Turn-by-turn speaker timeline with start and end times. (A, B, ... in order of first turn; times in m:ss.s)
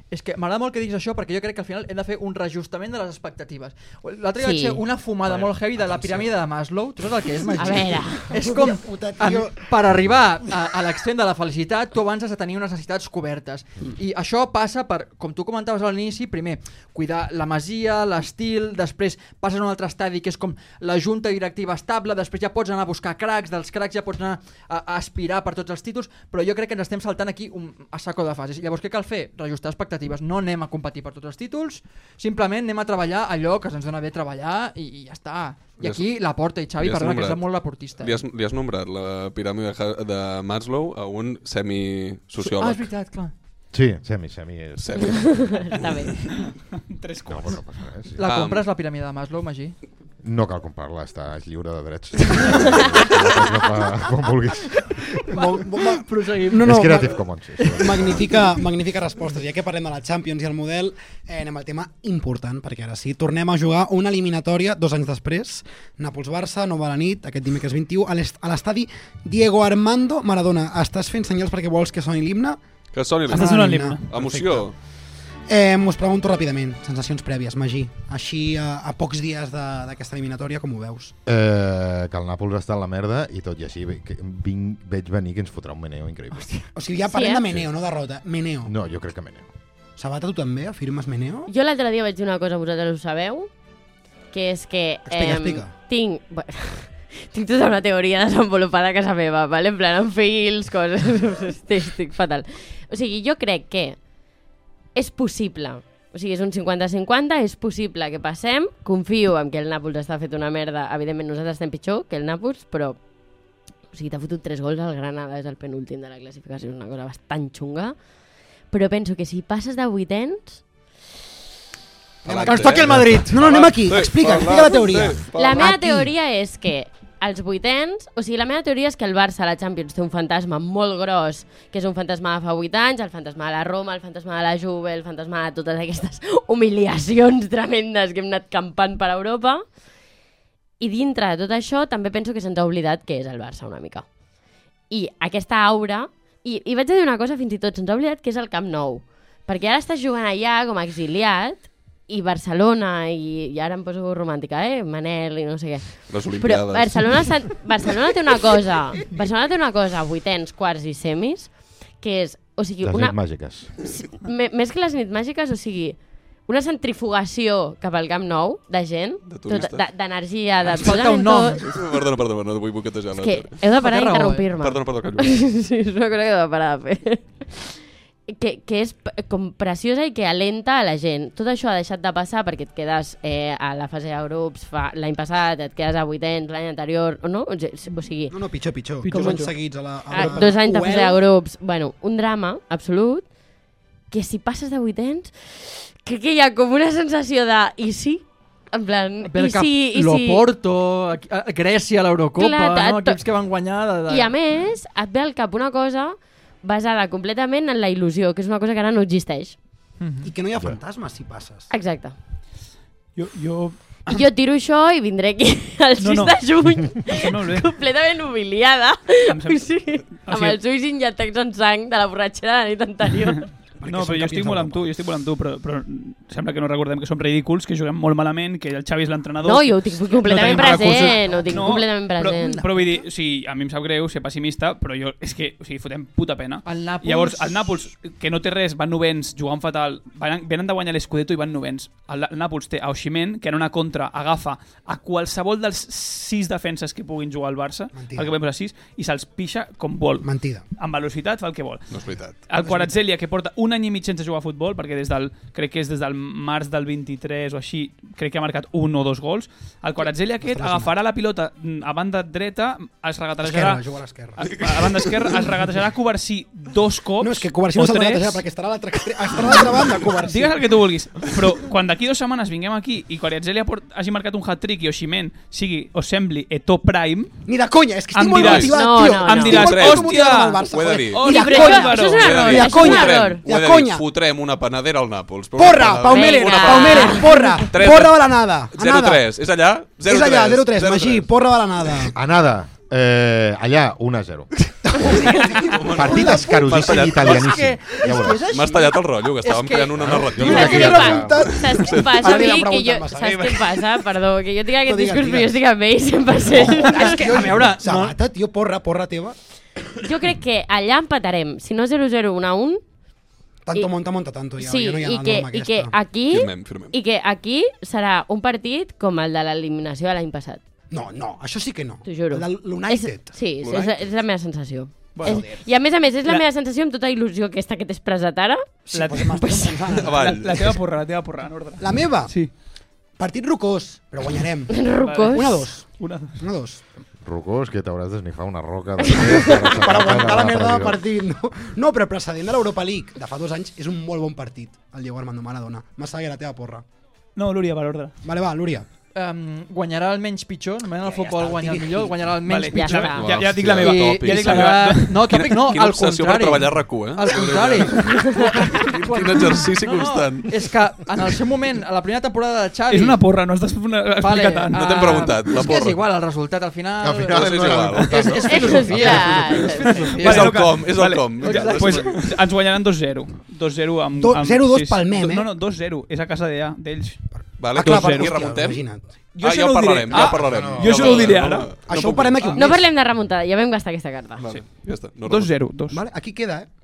0:00.1-0:38.2 A
0:04.4-0:04.8 B
0:07.4-0:09.6 C
0:07.6-0:08.5 B
0:36.8-0:37.4 D
0:38.0-0:42.9 D
0:42.4-0:43.3 A
0:43.7-0:45.4 E
0:44.8-0:45.9 D
0:45.1-0:46.2 B
0:46.3-0:47.6 F
0:47.3-0:48.2 E
0:48.2-0:49.8 A
0:48.2-0:48.6 D
0:50.2-0:55.2 E
0:55.3-0:57.1 A
0:55.3-1:12.6 C
0:56.6-0:58.3 E
0:57.6-0:58.3 A
1:12.9-1:14.7 D
1:13.3-1:14.1 F
1:13.3-1:14.7 C
1:15.5-1:21.1 C
1:21.2-1:26.5 E
1:26.3-1:26.7 A
1:26.7-1:28.7 C
1:27.0-1:27.5 B
1:28.6-1:29.5 E
1:30.0-1:31.5 C
1:31.5-1:33.5 B
1:34.3-1:44.0 B
1:35.0-1:35.7 C
1:44.9-1:53.0 B
1:53.9-1:57.9 B
1:58.7-2:00.6 B
2:02.2-2:05.7 D
2:02.2-2:06.1 C
2:02.4-2:03.4 A
2:02.8-2:03.2 E
2:05.3-2:19.6 B
2:20.8-2:24.1 B
2:24.9-2:43.2 B
2:36.1-2:37.6 D
2:42.8-2:43.8 E
2:43.8-2:51.7 B
2:49.3-2:49.8 D
2:50.6-2:51.7 A
2:51.6-2:53.6 D
2:53.2-3:08.4 B
2:53.8-2:54.4 A
2:54.6-2:55.4 D
3:08.3-3:11.2 C
3:09.0-3:09.5 A
3:09.1-3:13.3 B
3:14.1-3:20.4 B
3:19.2-3:24.3 A
3:22.4-3:23.2 B
3:24.1-3:29.6 B
3:30.0-3:30.3 A
3:30.2-3:31.7 C
3:31.7-3:32.2 B
3:33.2-3:34.2 F
3:34.1-3:43.5 B
3:36.0-3:37.7 F
3:39.3-3:40.6 F
3:43.8-3:44.9 C
3:43.8-4:23.8 F
3:49.4-3:52.7 B
3:52.4-3:53.0 A
3:56.6-3:57.8 A
4:07.9-4:08.3 C
4:10.2-4:10.6 C
4:11.9-4:12.4 D
4:12.6-4:12.9 C
4:20.4-4:20.9 C
4:23.4-4:24.4 C
4:24.4-4:28.4 F
4:27.2-4:30.6 C
4:30.2-4:37.3 F
4:37.5-4:44.0 C
4:38.1-4:42.8 F
4:38.4-4:38.7 D
4:38.7-4:39.8 B
4:39.5-4:51.3 D
4:41.2-4:43.4 B
4:45.6-4:49.2 C
4:46.1-4:47.7 B
4:50.0-4:52.2 C
4:52.1-4:54.5 E
4:54.8-4:56.9 C
4:55.5-4:57.6 D
4:55.9-4:58.4 E
4:57.2-5:00.3 A
4:57.9-4:58.4 C
4:58.5-5:02.4 D
5:00.0-5:01.5 E
5:00.4-5:04.0 C
5:00.4-5:07.2 B
5:04.8-5:05.6 C
5:06.5-5:09.4 C
5:06.8-5:08.2 A
5:10.0-5:12.8 B
5:13.6-5:15.9 C
5:14.6-5:20.6 B
5:16.3-5:17.0 D
5:20.9-5:23.3 C
5:22.0-5:29.8 B
5:23.6-5:24.1 D
5:25.1-5:25.5 F
5:25.2-5:25.6 C
5:28.9-5:30.4 C
5:28.9-5:32.5 F
5:29.9-5:30.8 D
5:31.8-5:32.3 C
5:33.2-5:36.8 C
5:34.7-5:35.6 B
5:35.0-5:36.4 F
5:37.2-5:41.0 E
5:39.2-5:39.5 B
5:39.6-5:46.8 C
5:47.4-5:48.1 F
5:48.2-5:48.9 C
5:49.1-5:53.2 A
5:51.0-5:52.2 C
5:52.4-5:55.4 F
5:52.7-5:53.4 B
5:53.0-6:00.5 D
5:53.8-6:03.2 A
6:02.9-6:05.3 F
6:04.2-6:12.2 A
6:04.7-6:06.0 D
6:07.0-6:09.6 E
6:07.3-6:09.6 D
6:08.4-6:10.0 B
6:09.9-6:17.2 F
6:10.1-6:12.3 D
6:14.2-6:15.5 C
6:17.6-6:18.8 D
6:17.7-6:18.7 F
6:17.7-6:19.2 C
6:19.3-6:21.8 F
6:19.4-6:22.5 D
6:20.1-6:21.4 E
6:21.8-6:22.8 C
6:22.6-6:24.4 B
6:24.4-6:25.5 D
6:24.5-6:26.0 F
6:25.9-6:26.7 C